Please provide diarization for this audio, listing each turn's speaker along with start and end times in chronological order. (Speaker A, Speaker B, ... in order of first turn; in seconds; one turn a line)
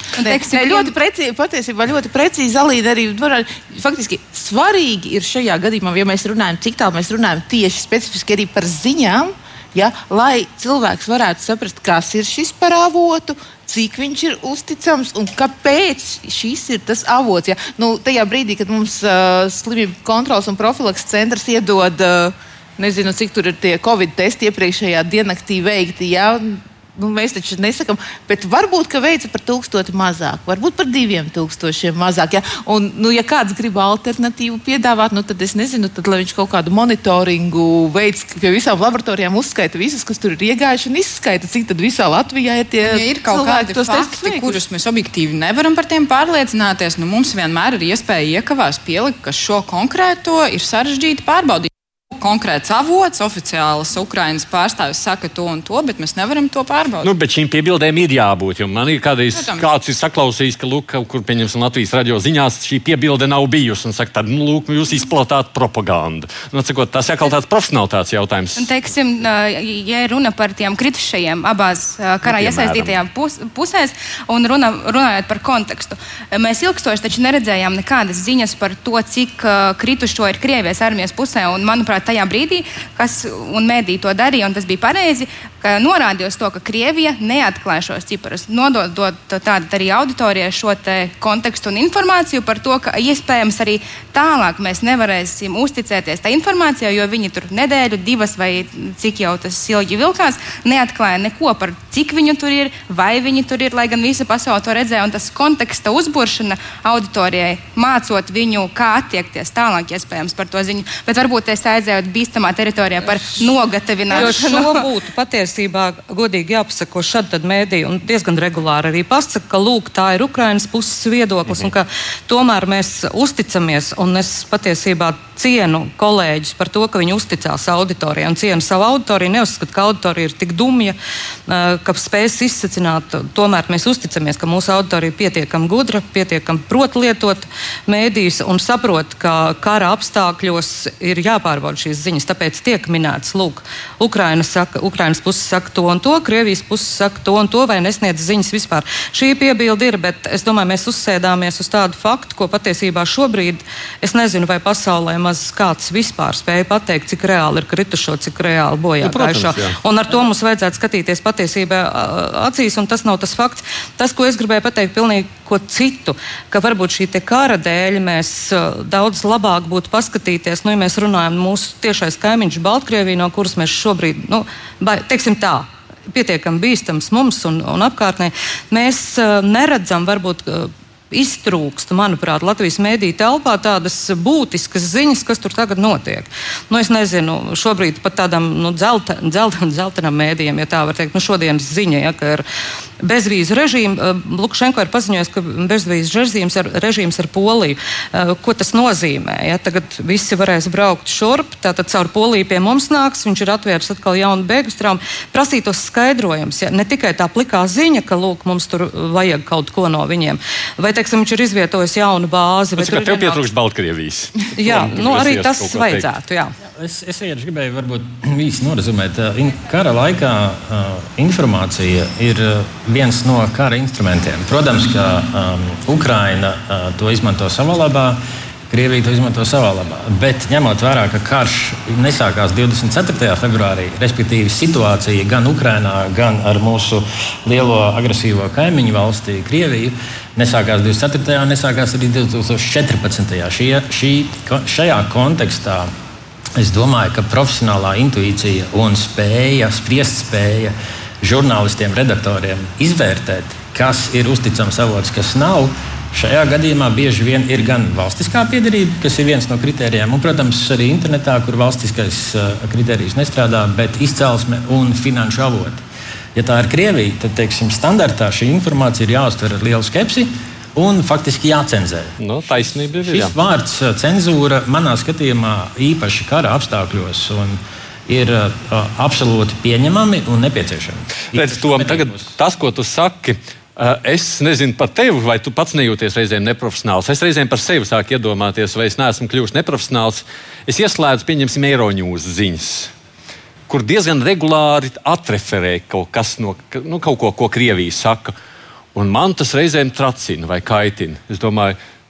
Speaker A: 0.2-0.9
Speaker B: 0.2-44.6
Speaker C: 42.8-57.1
Speaker D: 57.0-68.7
Speaker C: 59.3-59.6
Speaker A: 68.6-114.8
Speaker D: 72.2-73.0
Speaker E: 114.1-131.0
Speaker E: 131.5-192.4
Speaker D: 159.0-159.8
Speaker E: 193.0-213.4
Speaker D: 212.8-216.1
Speaker E: 214.5-216.5
Speaker F: 216.8-228.2
Speaker F: 228.7-245.9
Speaker F: 246.6-265.8
Speaker F: 266.3-272.1
Speaker D: 272.2-273.3
Speaker F: 273.0-282.3
Speaker D: 281.3-292.9
Speaker D: 293.7-298.3
Speaker D: 298.9-301.8